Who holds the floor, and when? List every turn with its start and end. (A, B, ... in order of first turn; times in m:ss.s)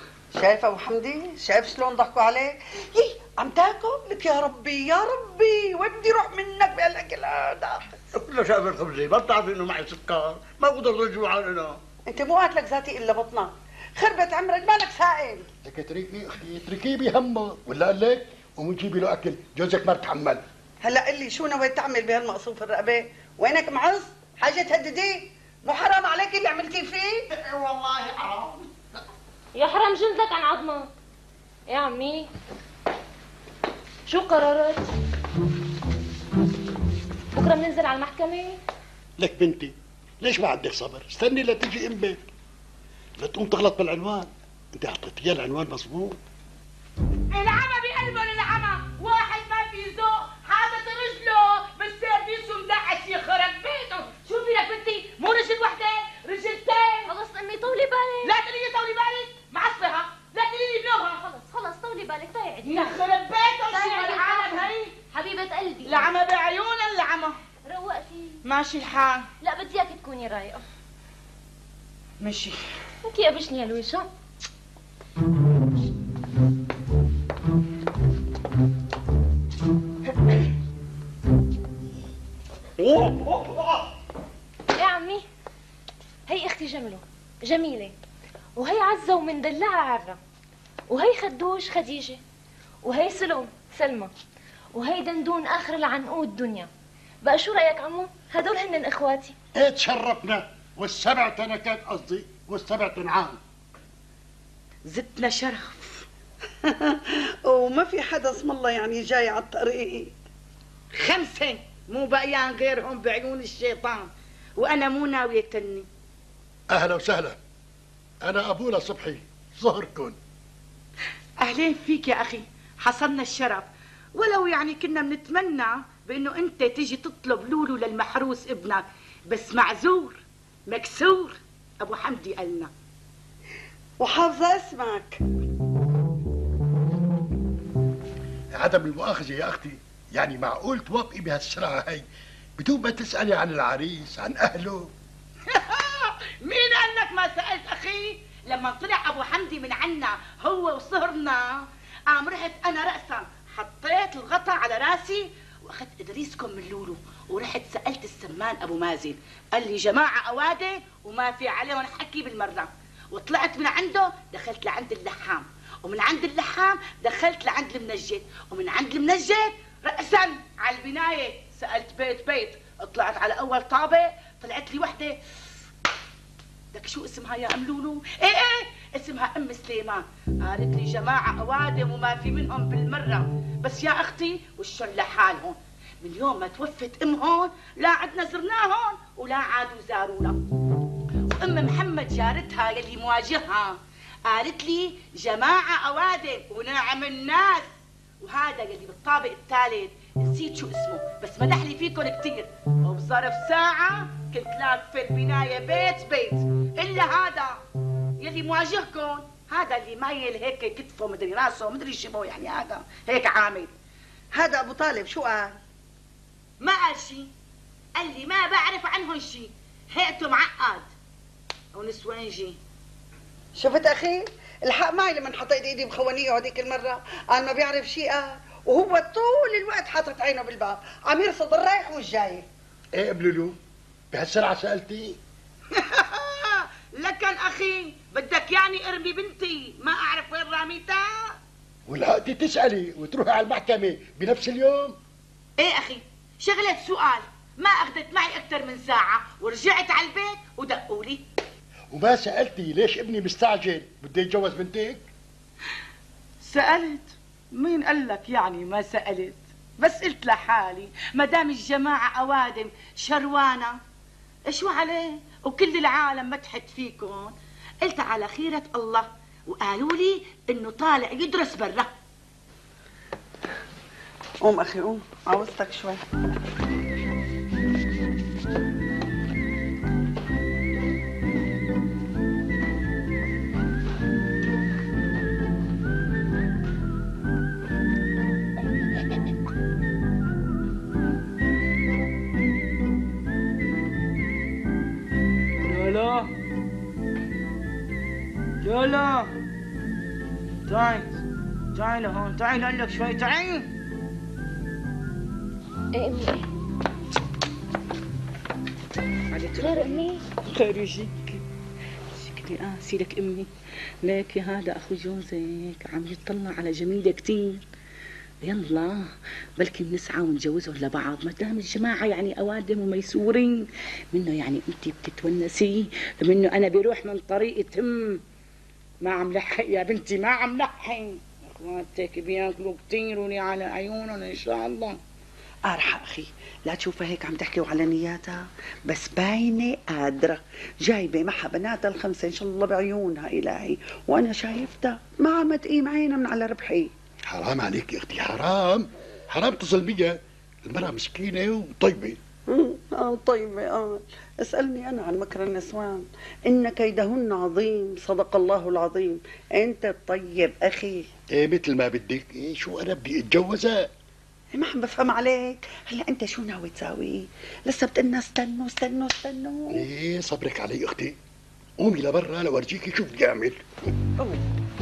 0:00.3-0:07.8 A
0:08.1-0:11.8 B
0:12.1-0:15.5 A
0:15.6-0:20.4 C
0:20.8-0:27.2 A
0:27.5-0:28.6 B
0:29.6-0:30.9 D
0:31.7-0:32.3 D
0:34.1-0:34.9 D
0:37.3-0:38.6 D
0:39.2-0:42.2 C
0:43.2-0:46.2 C
0:47.3-0:57.1 E
0:57.1-0:58.3 D
0:58.2-1:01.2 E
1:01.3-1:03.0 D
1:02.6-1:04.9 E
1:03.7-1:06.1 D
1:05.8-1:07.4 E
1:07.6-1:08.4 D
1:08.4-1:09.3 E
1:09.4-1:10.6 D
1:12.2-1:12.6 E
1:13.1-1:14.1 D
1:24.7-1:25.2 D
1:26.3-1:27.9 D
1:28.6-1:30.2 D
1:30.9-1:32.2 D
1:32.8-1:34.1 D
1:34.7-1:36.7 D
1:37.2-1:39.3 D
1:39.6-1:43.4 C
1:44.8-1:46.1 E
1:46.7-1:50.1 A
1:50.9-1:55.9 E
1:56.7-1:57.4 C
1:58.2-2:00.2 C
2:01.4-2:12.7 E
2:14.0-2:15.2 A
2:18.5-2:22.0 C
2:22.6-2:24.9 C
2:25.5-2:55.2 E
2:56.7-3:10.4 E
3:11.3-3:17.6 E
3:18.2-3:27.6 E
3:28.2-3:33.7 E
3:34.3-3:35.6 A
3:36.6-3:37.3 E
3:38.0-3:40.9 E
3:41.7-3:42.6 E
3:43.6-3:52.5 A
3:53.0-3:53.6 C
3:54.1-3:55.2 C
3:55.7-4:01.1 E
4:01.9-4:05.0 C
4:05.6-4:11.2 E
4:11.9-4:15.1 C
4:16.4-4:23.7 E
4:24.5-4:31.9 E
4:34.4-4:36.0 A
4:55.6-4:56.3 E
4:58.6-4:59.3 E
5:00.7-5:01.2 E
5:01.7-5:03.7 E
5:05.9-5:06.4 D
5:09.3-5:11.4 E
5:09.6-5:10.2 D
5:12.2-5:13.5 E
5:14.0-5:17.6 E
5:18.4-5:28.2 E
5:29.0-5:35.0 E
5:35.6-5:46.9 A
5:47.3-5:52.2 C
5:52.5-6:01.1 A
6:01.4-6:03.9 C
6:04.5-6:09.8 A
6:09.7-6:11.2 C
6:11.8-6:13.6 C